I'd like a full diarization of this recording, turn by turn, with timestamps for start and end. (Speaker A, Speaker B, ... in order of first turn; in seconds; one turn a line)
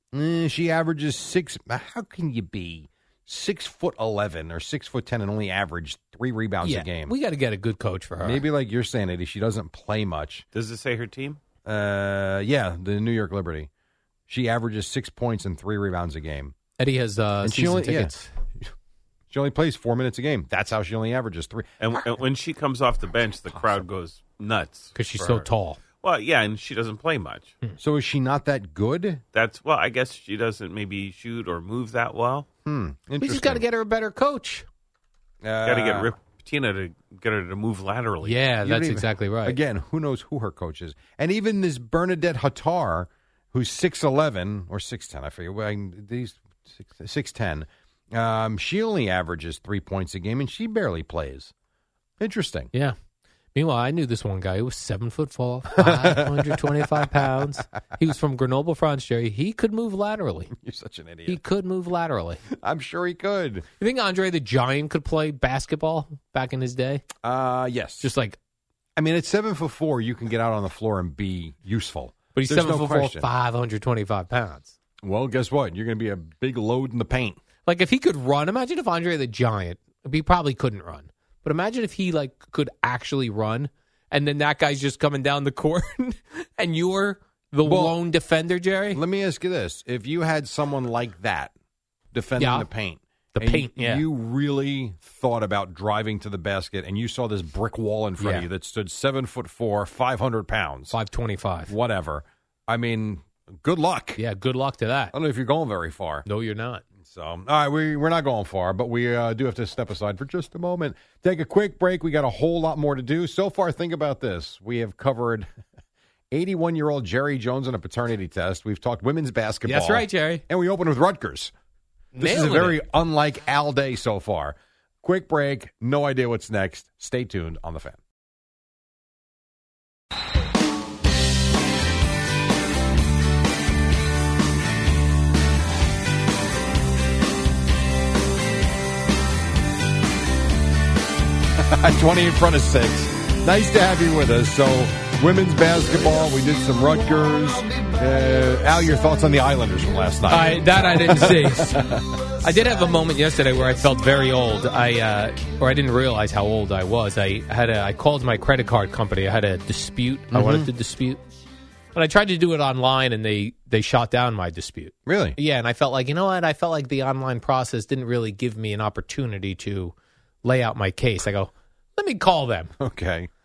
Speaker A: 0.1-7.1
Speaker B: 6.6-8.4
Speaker A: 8.2-10.5
Speaker C: 10.5-11.4
Speaker A: 11.6-13.7
Speaker A: 14.3-16.5
Speaker B: 16.8-18.3
Speaker A: 17.4-18.1
Speaker A: 19.3-21.7
Speaker C: 21.8-25.5
Speaker B: 24.9-25.8
Speaker C: 26.0-27.6
Speaker A: 27.8-29.2
Speaker C: 29.3-32.5
Speaker A: 32.6-33.6
Speaker B: 33.2-34.6
Speaker A: 35.4-36.1
Speaker C: 35.6-38.4
Speaker B: 38.2-39.6
Speaker A: 38.5-51.5
Speaker A: 52.2-52.7
Speaker B: 53.5-60.5
Speaker A: 55.7-57.3
Speaker A: 60.5-61.4
Speaker B: 61.2-62.4
Speaker A: 62.6-63.6
Speaker B: 63.8-67.0
Speaker A: 67.2-68.1
Speaker B: 68.0-68.3
Speaker A: 69.0-73.3
Speaker B: 72.3-74.7
Speaker A: 75.0-77.4
Speaker B: 77.7-89.0
Speaker A: 87.6-88.0
Speaker A: 88.9-91.5
Speaker A: 92.1-101.0
Speaker B: 92.4-92.7
Speaker B: 93.3-94.0
Speaker B: 98.2-98.5
Speaker B: 100.9-101.7
Speaker A: 101.7-104.2
Speaker B: 104.2-105.1
Speaker A: 105.1-106.2
Speaker B: 106.2-106.8
Speaker A: 107.0-115.5
Speaker A: 116.3-121.5
Speaker B: 119.6-120.4
Speaker B: 122.2-122.8
Speaker A: 122.2-128.0
Speaker A: 141.6-152.1
Speaker B: 150.3-151.8
Speaker B: 152.4-161.2
Speaker A: 160.3-160.7
Speaker B: 161.9-172.7
Speaker A: 165.1-165.4
Speaker A: 172.8-173.3